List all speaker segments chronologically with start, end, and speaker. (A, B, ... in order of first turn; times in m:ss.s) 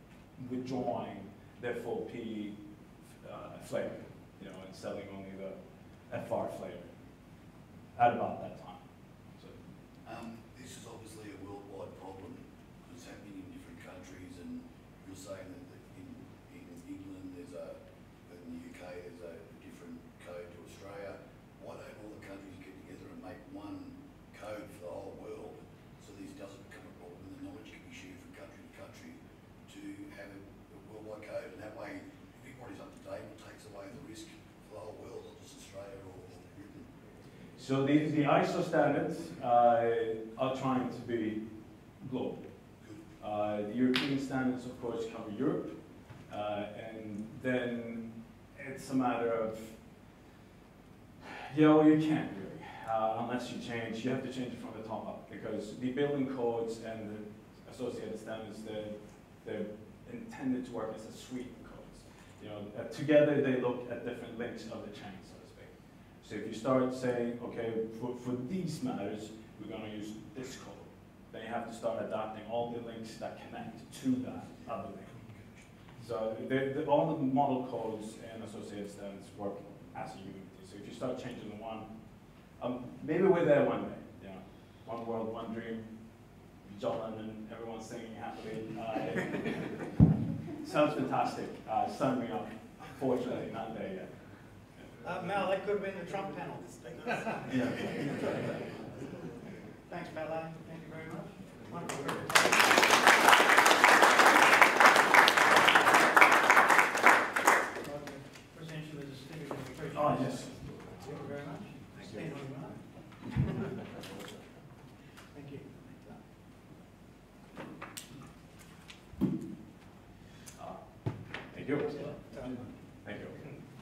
0:00.4-0:02.5 A
0:03.2-0:05.6 A
0:06.1-0:06.9 A
0:07.9-0:08.8 A
0:10.0-0:36.9 B
0:37.6-0:41.4 A
0:42.0-0:42.5 A
0:43.2-0:49.8 A
0:51.2-1:15.2 A
1:15.1-1:15.7 B
1:16.0-1:21.9 A
1:22.6-1:25.8 A
1:26.6-1:29.9 A
1:30.5-1:34.3 A
1:35.0-1:38.3 C
1:39.9-1:42.8 C
1:47.8-1:53.7 C
1:50.0-1:50.6 A
1:55.3-1:56.2 C
2:00.6-2:00.8 A
2:01.5-2:02.2 A
2:01.7-2:02.7 C
2:03.0-2:03.4 A